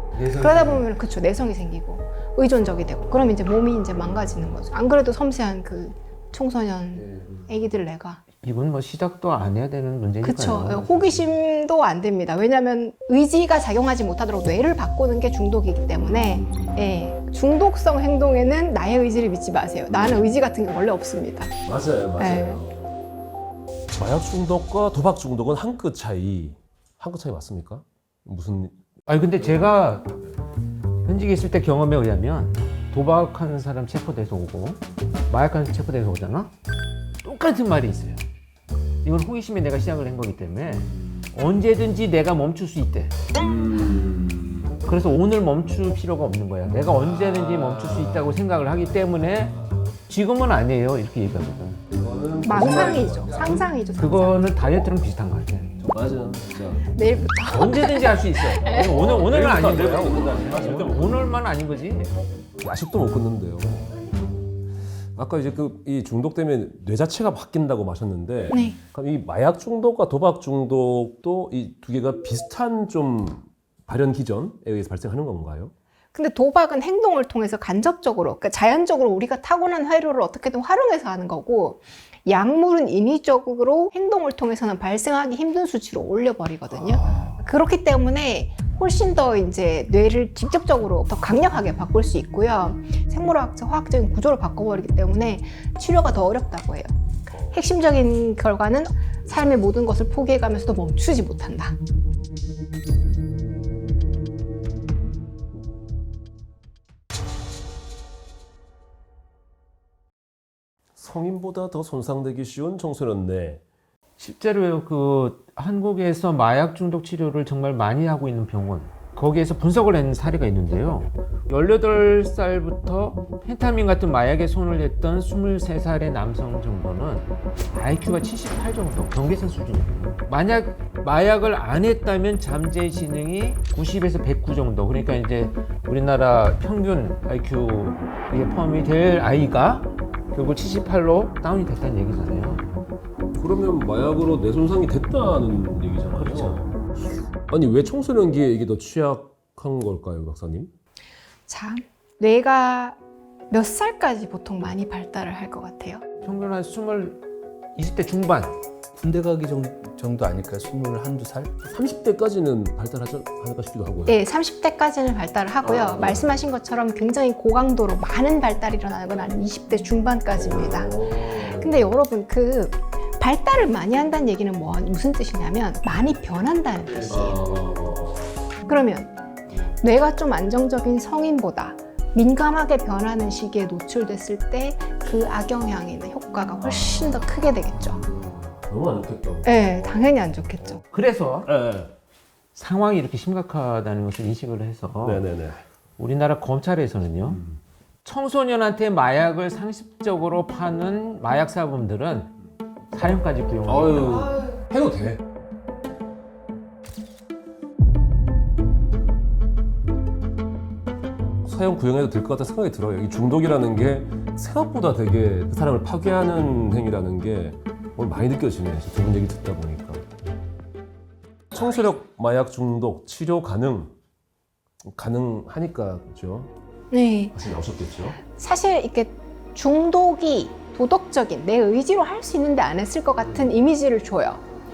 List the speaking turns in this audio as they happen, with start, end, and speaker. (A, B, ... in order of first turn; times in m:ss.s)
0:00.1-0:00.8 A
0:00.3-0:08.2 B
0:07.0-0:07.2 A
0:08.4-0:11.2 A
0:10.2-0:21.5 B
0:16.0-0:16.9 C
0:21.6-0:22.9 C
0:22.2-0:22.6 B
0:23.9-0:28.8 C
0:29.1-0:30.1 A
0:29.4-0:29.6 C
0:31.0-0:36.5 A
0:37.2-0:38.2 A
0:39.0-0:43.2 A
0:43.3-0:44.8 C
0:44.8-0:49.5 A
0:47.0-0:48.3 C
0:50.1-0:51.8 A
0:51.9-0:53.7 C
0:52.4-0:54.5 B
0:54.0-0:55.7 A
0:55.8-0:56.9 C
0:56.9-0:59.0 B
0:57.4-1:02.1 A
0:58.6-1:01.2 C
1:02.6-1:03.9 C
1:05.2-1:15.7 C
1:08.5-1:08.8 B
1:16.1-1:41.8 B
1:27.0-1:27.3 C
1:51.0-1:53.6 C
1:54.2-2:22.6 A
2:23.4-2:26.7 C
2:26.2-2:26.6 A
2:27.5-2:30.7 C
2:31.5-2:33.0 B
2:33.5-2:36.0 B
2:36.2-2:37.2 A
2:37.7-2:38.6 A
2:39.0-2:41.5 D
2:41.6-2:44.2 C
2:44.1-2:57.4 B
2:45.6-2:46.3 C
2:50.3-2:51.8 C
2:57.1-2:58.3 C
2:58.6-2:59.1 B
2:59.8-3:08.0 B
3:06.6-3:07.2 C
3:08.0-3:10.0 C
3:09.4-3:10.8 B
3:10.9-3:11.5 A
3:11.4-3:11.9 C
3:12.5-3:15.2 A
3:15.0-3:15.6 C
3:16.0-3:17.4 A
3:17.2-3:17.6 C
3:18.0-3:22.3 A
3:22.9-3:24.4 A
3:23.7-3:25.2 C
3:31.4-3:40.0 C
3:41.5-3:43.9 C
3:44.9-3:46.5 C
3:46.9-3:47.4 B
3:47.3-3:48.2 C
3:48.2-3:54.4 B
3:53.2-3:53.5 C